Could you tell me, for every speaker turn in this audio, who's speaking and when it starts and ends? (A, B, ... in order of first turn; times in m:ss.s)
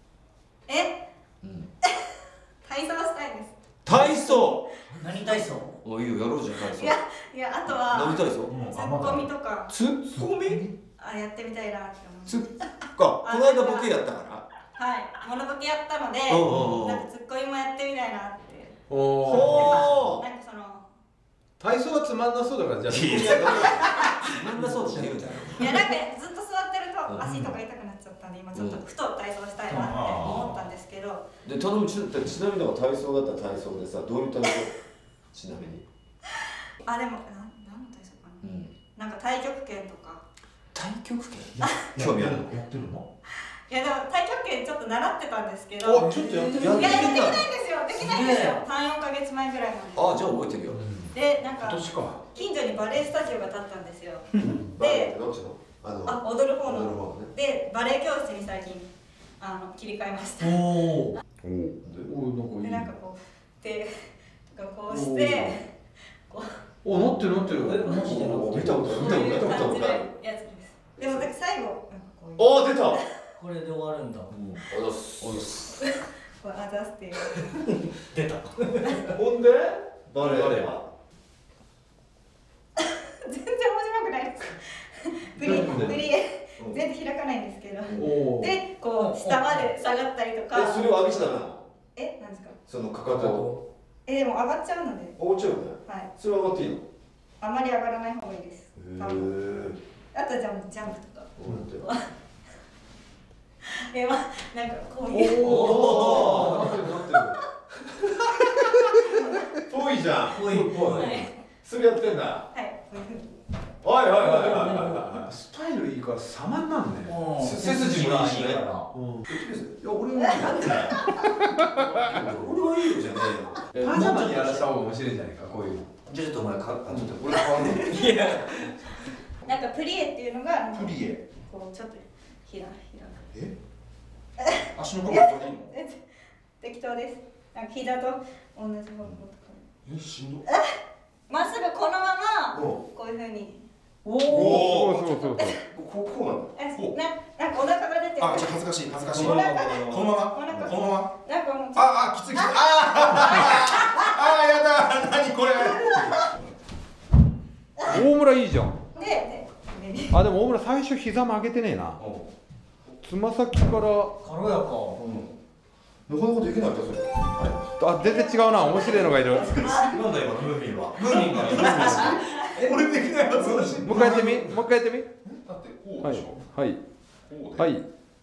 0:00.7-0:01.0 A
0:01.4-0:01.7 B
0:01.8-0:02.1 A
0:02.6-0:05.4 A
0:03.8-0:04.7 B
0:05.0-0:05.8 C
0:05.8-0:07.0 B
0:06.6-0:09.7 A
0:07.7-0:08.6 B
0:08.5-0:09.3 D
0:09.7-0:10.7 B
0:11.0-0:12.5 A
0:12.3-0:14.5 B
0:13.2-0:13.9 A
0:14.8-0:20.8 A
0:16.3-0:17.0 B
0:18.9-0:19.8 E
0:19.3-0:20.2 B
0:21.6-0:23.8 E
0:22.9-0:26.0 B
0:23.4-0:24.0 A
0:24.6-0:25.5 C
0:25.5-0:31.2 A
0:27.1-0:27.6 B
0:28.5-0:28.8 B
0:29.7-0:30.6 D
0:31.4-0:34.8 B
0:35.3-0:35.8 B
0:36.8-0:38.4 A
0:38.4-0:38.7 B
0:39.0-0:40.2 A
0:40.7-0:42.6 B
0:42.0-0:43.1 D
0:43.7-0:50.1 A
0:45.9-0:46.6 D
0:46.1-0:46.6 C
0:46.3-0:47.5 B
0:48.0-0:48.6 C
0:49.9-0:50.8 B
0:50.7-0:52.1 E
0:51.1-0:55.1 A
0:54.6-0:57.3 B
0:56.1-0:58.9 A
0:59.4-1:00.6 A
1:00.4-1:01.2 C
1:01.4-1:02.9 E
1:01.8-1:02.1 B
1:02.5-1:03.9 A
1:04.5-1:05.7 A
1:04.9-1:05.5 E
1:06.3-1:06.6 A
1:06.8-1:09.1 E
1:07.0-1:10.1 B
1:07.6-1:09.0 C
1:08.9-1:13.0 A
1:11.0-1:11.3 B
1:12.4-1:13.0 B
1:13.4-1:14.3 C
1:14.3-1:15.9 B
1:15.7-1:17.5 A
1:17.8-1:18.8 C
1:18.8-1:19.1 A
1:19.1-1:20.9 B
1:22.8-1:30.9 A
1:25.4-1:26.0 E
1:25.5-1:26.0 B
1:28.0-1:28.6 E
1:29.0-1:29.7 C
1:30.5-1:31.6 B
1:32.0-1:32.6 A
1:32.7-1:33.6 B
1:33.3-1:33.6 C
1:34.1-1:35.2 A
1:35.2-1:36.8 B
1:37.4-1:39.3 A
1:38.8-1:39.8 B
1:40.1-1:42.1 A
1:41.4-1:41.9 B
1:43.6-1:46.1 A
1:45.1-1:47.4 E
1:45.4-1:46.9 B
1:46.8-1:47.3 A
1:47.9-1:52.5 B
1:49.1-1:49.4 A
1:50.3-1:51.1 C
1:50.9-1:51.3 A
1:52.5-1:53.3 A
1:53.8-1:55.2 B
1:54.2-1:55.1 C
1:55.1-1:59.3 E
1:57.0-1:57.8 C
1:57.4-1:58.6 B
1:59.3-2:01.2 B
2:00.2-2:00.5 A
2:01.1-2:02.2 E
2:01.8-2:03.7 B
2:03.7-2:05.9 E
2:03.8-2:04.7 C
2:06.1-2:08.2 B
2:07.4-2:08.2 D
2:07.5-2:08.7 C
2:09.4-2:13.2 A
2:10.7-2:11.2 D
2:14.4-2:16.0 A
2:14.7-2:15.7 D
2:16.6-2:19.6 A
2:19.9-2:20.4 D
2:20.5-2:20.7 A
2:21.3-2:23.6 A
2:22.5-2:22.8 B
2:24.0-2:24.7 C
2:24.3-2:24.6 D
2:24.3-2:25.1 B
2:24.6-2:25.6 E
2:25.0-2:25.6 A
2:25.7-2:26.5 B
2:26.6-2:33.8 A
2:28.2-2:31.1 D
2:29.1-2:30.7 B
2:31.8-2:36.3 D
2:35.7-2:36.1 A
2:37.8-2:38.8 E
2:39.0-2:40.2 A
2:40.1-2:42.0 E
2:42.0-2:42.3 B
2:43.0-2:44.2 E
2:44.2-2:45.0 C
2:45.0-2:45.3 B
2:46.1-2:47.6 B
2:47.8-2:49.8 E
2:48.0-2:49.1 A
2:48.7-2:52.2 B
2:49.6-2:49.9 A
2:51.0-2:54.5 D
2:51.4-2:52.2 E
2:53.4-2:53.7 B
2:53.8-2:55.1 E
2:55.4-2:56.4 D
2:56.0-2:56.8 E
2:57.3-2:57.7 D
2:57.6-2:57.9 E